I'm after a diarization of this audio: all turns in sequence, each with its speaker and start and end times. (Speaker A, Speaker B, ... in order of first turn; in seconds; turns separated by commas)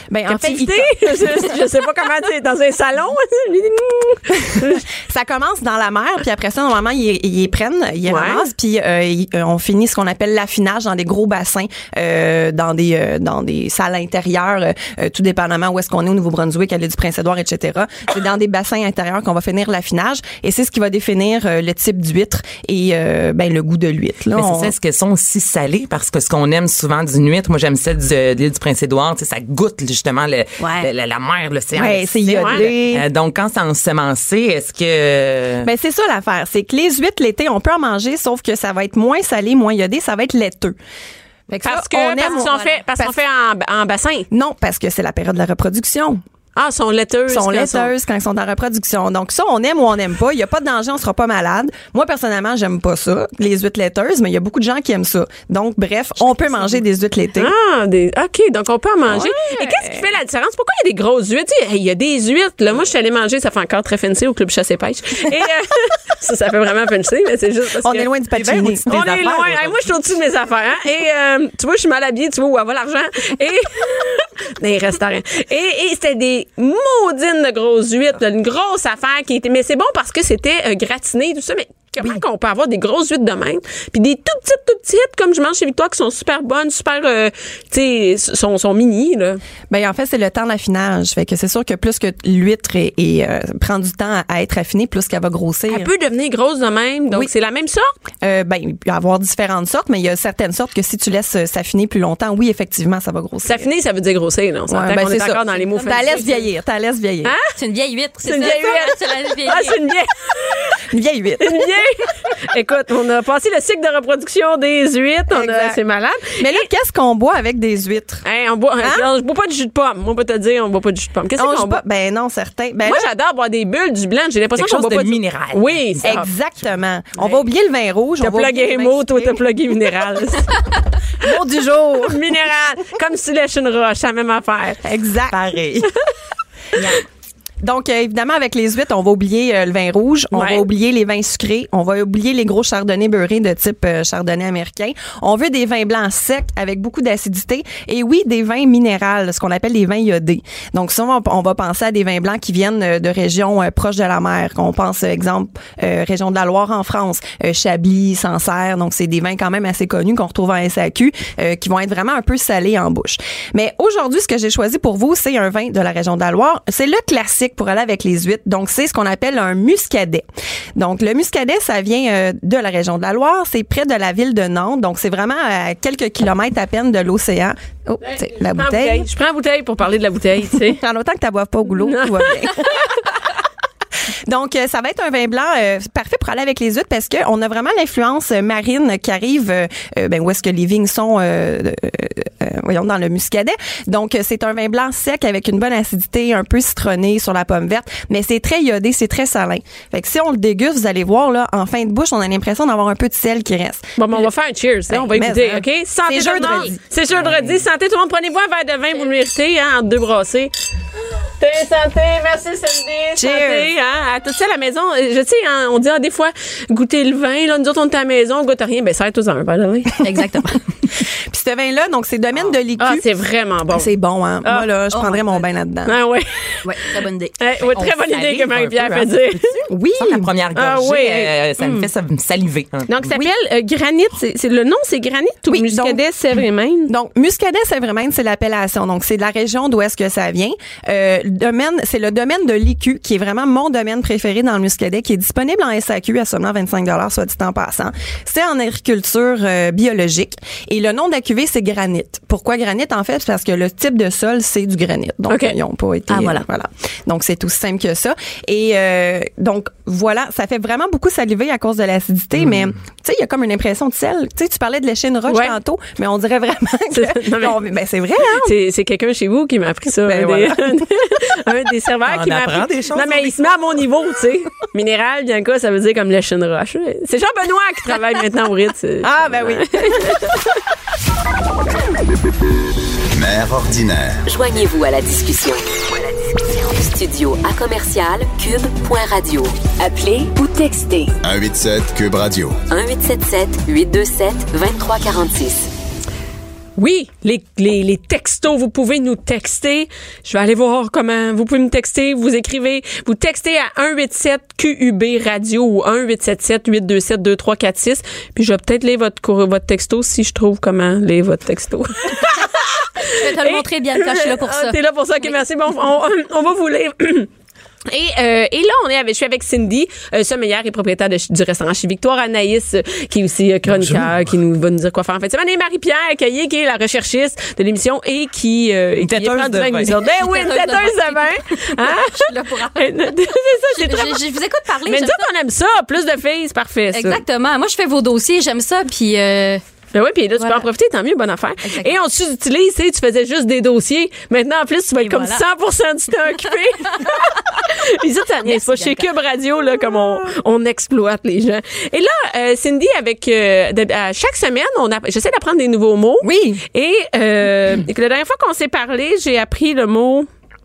Speaker A: 0.1-1.6, Speaker B: 0.3-4.8, Speaker A: 4.6-24.7, Speaker B: 8.1-8.5, Speaker C: 24.3-35.7, Speaker D: 30.6-30.9, Speaker A: 31.8-33.0, Speaker B: 32.3-32.7, Speaker A: 35.6-40.8, Speaker A: 41.5-43.2, Speaker B: 41.5-44.3, Speaker A: 44.3-46.2, Speaker B: 46.6-47.9, Speaker A: 47.3-57.5, Speaker B: 57.4-89.4, Speaker A: 59.1-60.1, Speaker A: 67.8-69.1, Speaker C: 68.4-69.8, Speaker A: 89.7-95.9, Speaker B: 95.7-97.9, Speaker A: 98.2-103.7, Speaker B: 103.4-106.5, Speaker A: 104.7-107.3, Speaker B: 107.2-107.5, Speaker D: 107.5-109.8, Speaker B: 108.2-110.8, Speaker A: 110.9-111.7, Speaker B: 111.4-116.6, Speaker A: 115.3-115.8, Speaker A: 116.4-118.2, Speaker B: 118.2-121.8, Speaker A: 118.8-119.1, Speaker A: 121.4-123.1, Speaker B: 122.9-126.3, Speaker C: 124.6-126.2, Speaker A: 126.0-129.4, Speaker B: 127.2-127.4, Speaker B: 128.2-130.6, Speaker A: 131.2-132.2, Speaker B: 132.0-134.8, Speaker A: 134.8-135.4, Speaker C: 135.3-135.9, Speaker A: 137.6-170.2, Speaker B: 140.3-140.7, Speaker A: 170.8-179.1, Speaker B: 178.0-180.8, Speaker A: 180.6-183.2, Speaker B: 181.8-182.9, Speaker A: 184.3-204.2, Speaker B: 204.0-210.5, Speaker A: 204.9-206.8, Speaker C: 207.1-207.6, Speaker B: 211.4-220.1, Speaker A: 213.2-213.7, Speaker D: 220.0-220.6, Speaker A: 221.3-223.1, Speaker B: 222.8-223.9, Speaker A: 223.7-226.0, Speaker D: 224.9-225.4, Speaker B: 225.9-229.5, Speaker D: 226.6-227.3, Speaker C: 227.7-233.1, Speaker A: 229.7-230.3, Speaker B: 230.6-231.3, Speaker B: 232.9-236.9, Speaker A: 235.5-236.0, Speaker A: 236.9-268.5, Speaker B: 255.3-255.6, Speaker D: 256.1-256.4, Speaker B: 265.3-265.6, Speaker B: 266.9-267.6, Speaker B: 268.3-280.4, Speaker A: 270.1-270.8, Speaker C: 272.1-273.5, Speaker A: 279.0-280.2, Speaker E: 283.1-284.2, Speaker F: 284.3-291.2, Speaker E: 291.2-292.6, Speaker F: 292.7-295.7, Speaker B: 296.8-317.3, Speaker D: 313.0-314.8, Speaker B: 317.9-334.2, Speaker C: 323.7-324.1, Speaker C: 329.0-330.0, Speaker D: 330.1-333.1, Speaker D: 333.7-335.2, Speaker B: 334.9-337.2, Speaker D: 336.9-339.6, Speaker B: 339.9-360.3, Speaker D: 340.4-340.7, Speaker D: 341.6-341.9, Speaker D: 345.0-345.4, Speaker D: 348.5-349.1, Speaker A: 356.2-356.6